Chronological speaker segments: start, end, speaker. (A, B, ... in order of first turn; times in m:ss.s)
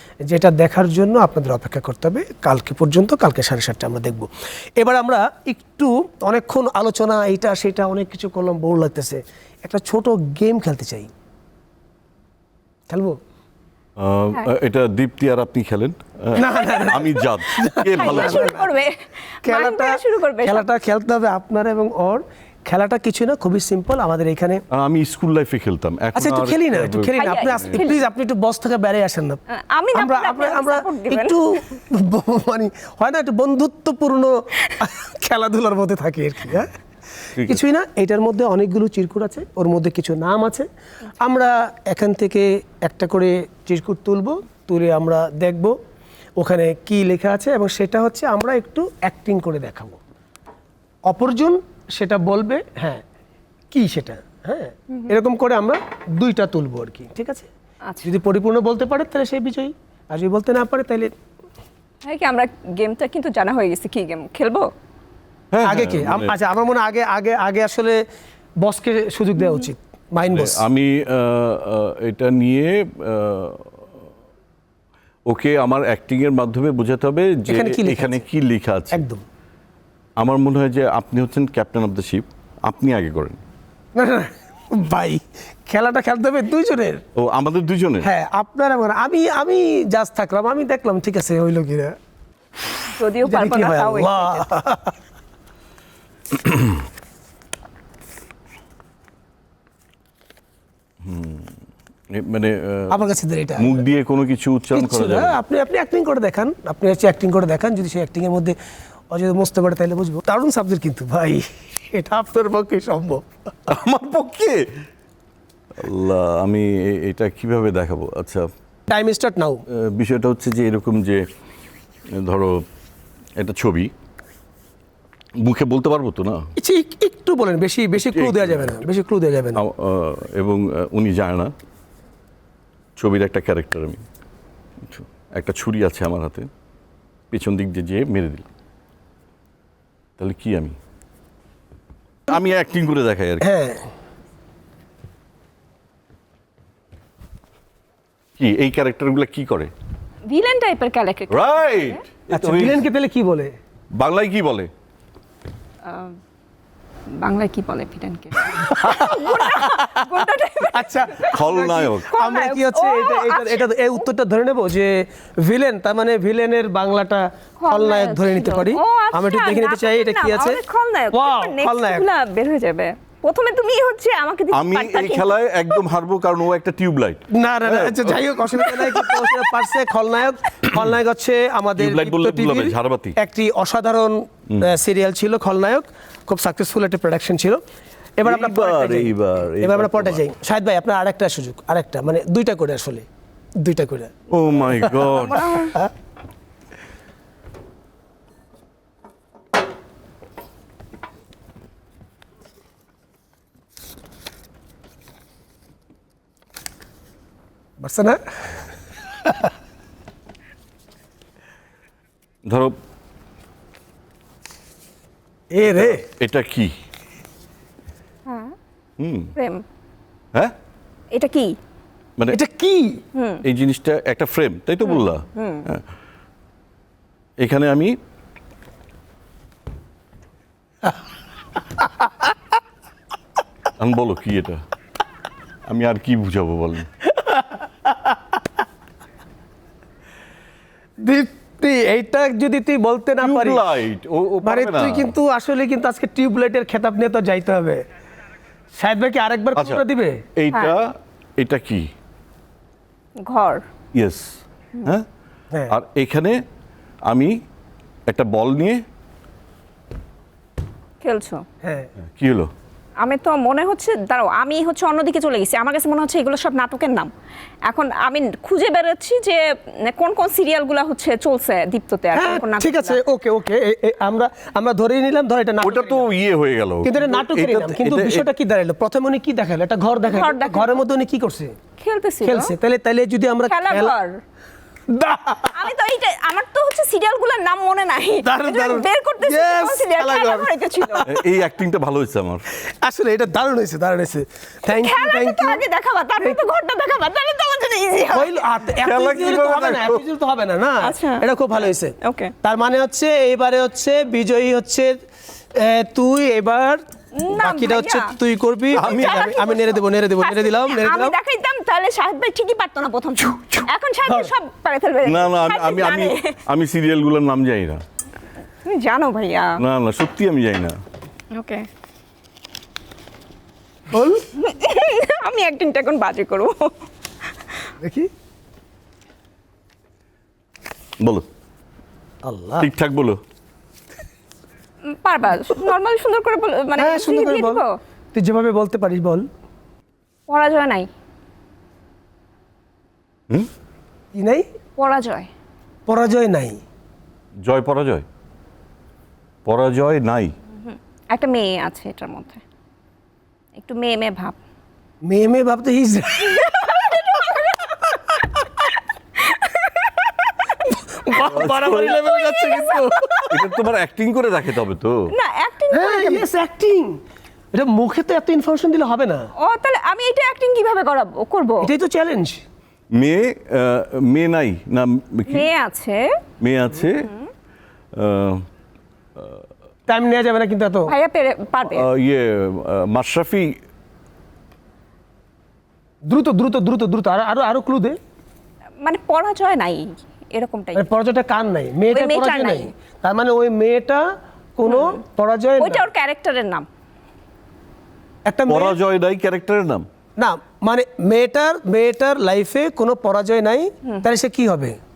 0:00.3-0:11.1 A
0:12.9-0:13.2 A
0:14.0-0:18.6 B
0:16.4-0:18.7 A
0:16.6-0:17.0 C
0:18.0-0:20.7 C
0:19.4-0:24.6 A
0:24.7-0:27.8 B
0:26.2-0:29.4 A
0:27.2-0:28.0 C
0:29.5-0:31.4 C
0:29.9-0:36.8 A
0:37.4-0:40.7 A
0:41.2-0:45.8 A
0:46.4-0:50.0 A
0:51.1-0:53.0 A
0:53.7-0:57.5 A
0:58.0-1:01.1 A
1:02.0-1:04.7 C
1:05.5-1:06.3 B
1:05.6-1:08.0 A
1:08.6-1:10.6 A
1:10.3-1:13.8 B
1:15.3-1:19.0 B
1:17.5-1:18.2 A
1:18.9-1:19.2 A
1:20.2-1:23.4 B
1:24.0-1:27.0 A
1:27.2-1:28.1 B
1:28.0-1:32.0 A
1:33.0-1:34.5 C
1:33.2-1:35.0 A
1:36.3-1:36.8 B
1:41.0-1:41.6 B
1:42.1-1:43.0 B
1:42.9-1:43.9 A
1:43.6-1:45.4 B
1:44.8-1:48.6 A
1:49.1-1:53.5 A
1:53.7-1:54.7 B
1:55.8-1:58.5 B
1:58.9-1:59.6 A
1:59.7-2:01.3 B
2:02.1-2:02.6 B
2:03.4-2:03.9 B
2:05.4-2:06.5 B
2:06.6-2:09.6 A
2:08.0-2:08.8 B
2:09.6-2:11.5 B
2:13.0-2:14.0 B
2:14.8-2:16.5 B
2:17.3-2:18.5 B
2:20.2-2:20.8 B
2:22.3-2:23.5 B
2:23.4-2:23.9 A
2:28.4-2:29.7 B
2:30.3-2:32.0 C
2:31.3-2:32.8 B
2:32.3-2:33.6 A
2:33.9-2:34.7 B
2:35.9-2:36.2 C
2:37.2-2:41.3 C
2:38.6-2:40.0 A
2:40.6-2:52.1 A
2:41.3-2:42.1 B
2:42.1-2:43.7 C
2:47.6-2:55.4 C
2:54.5-2:59.4 B
2:57.3-3:07.6 A
3:01.8-3:03.2 B
3:08.2-3:13.1 A
3:08.2-3:10.2 B
3:13.6-3:14.1 A
3:14.3-3:15.6 B
3:14.7-3:15.1 A
3:15.1-3:15.8 C
3:27.8-3:28.6 A
3:29.2-3:29.5 A
3:32.4-3:32.8 B
3:35.5-3:36.0 A
3:35.6-3:36.7 B
3:38.3-3:38.6 C
3:39.0-3:39.3 B
3:39.4-3:39.6 C
3:41.1-3:41.6 C
3:42.3-3:43.0 A
3:43.2-3:43.4 C
3:43.4-3:45.8 B
3:44.9-3:45.6 C
3:47.4-3:48.0 B
3:53.8-3:54.6 B
3:55.7-3:56.9 B
3:57.1-3:58.4 A
4:01.0-4:03.6 A
4:03.2-4:05.2 B
4:04.4-4:07.8 A
4:08.7-4:10.2 A
4:09.6-4:09.8 B
4:10.4-4:11.9 B
4:13.3-4:13.6 C
4:13.9-4:15.1 B
4:15.7-4:16.4 B
4:17.1-4:17.4 B
4:18.1-4:18.8 B
4:21.0-4:21.4 C
4:21.6-4:21.9 A
4:22.2-4:22.5 B
4:23.0-4:27.1 C
4:27.7-4:33.0 C
4:32.1-4:36.1 A
4:35.6-4:38.3 B
4:36.8-4:41.6 A
4:40.1-4:40.8 C
4:41.8-4:42.5 C
4:42.2-4:44.0 A
4:43.5-4:44.2 C
4:44.9-4:45.7 A
4:45.5-4:51.2 C
4:48.2-4:51.1 A
4:51.1-4:52.4 B
4:52.6-4:55.6 A
4:54.7-4:58.4 C
4:58.1-5:05.0 A
4:58.8-5:00.0 B
5:00.8-5:01.2 C
5:02.0-5:02.3 C
5:05.6-5:11.2 A
5:07.2-5:08.1 C
5:08.7-5:09.5 B
5:08.9-5:16.4 C
5:13.4-5:13.6 B
5:14.1-5:14.3 A
5:15.0-5:17.8 B
5:18.6-5:19.6 C
5:19.6-5:20.8 B
5:21.3-5:21.7 C
5:23.9-5:24.3 A
5:24.4-5:26.7 C
5:27.8-5:28.1 A
5:31.0-5:31.2 B
5:32.2-5:32.7 A
5:32.6-5:33.2 B
5:34.9-5:37.8 C
5:36.8-5:39.2 A
5:40.3-5:40.9 C
5:44.1-5:44.5 A
5:44.8-5:45.3 C
5:45.9-5:46.6 A
5:47.4-5:48.0 B
5:49.5-5:50.3 B
5:50.6-5:52.4 C
5:53.6-5:54.4 C
5:55.1-5:56.5 A
5:56.2-5:58.5 C
5:59.2-6:00.2 C
6:00.7-6:03.5 A
6:01.3-6:02.1 B
6:01.9-6:03.4 C
6:03.3-6:05.1 B
6:05.1-6:06.3 C
6:05.7-6:07.0 A
6:07.5-6:09.3 A
6:09.4-6:11.7 C
6:11.6-6:12.4 A
6:12.9-6:15.5 B
6:15.3-6:16.1 C
6:16.4-6:17.1 B
6:17.0-6:17.3 C
6:17.9-6:18.5 B
6:19.9-6:20.9 A
6:20.9-6:21.9 C
6:21.7-6:23.6 B
6:26.1-6:28.0 A
6:28.8-6:30.9 C
6:30.8-6:34.0 A
6:31.9-6:32.7 C
6:34.6-6:35.9 A
6:34.7-6:35.0 C
6:35.6-6:36.7 C
6:38.3-6:38.8 A
6:38.5-6:39.9 B
6:40.2-6:44.8 A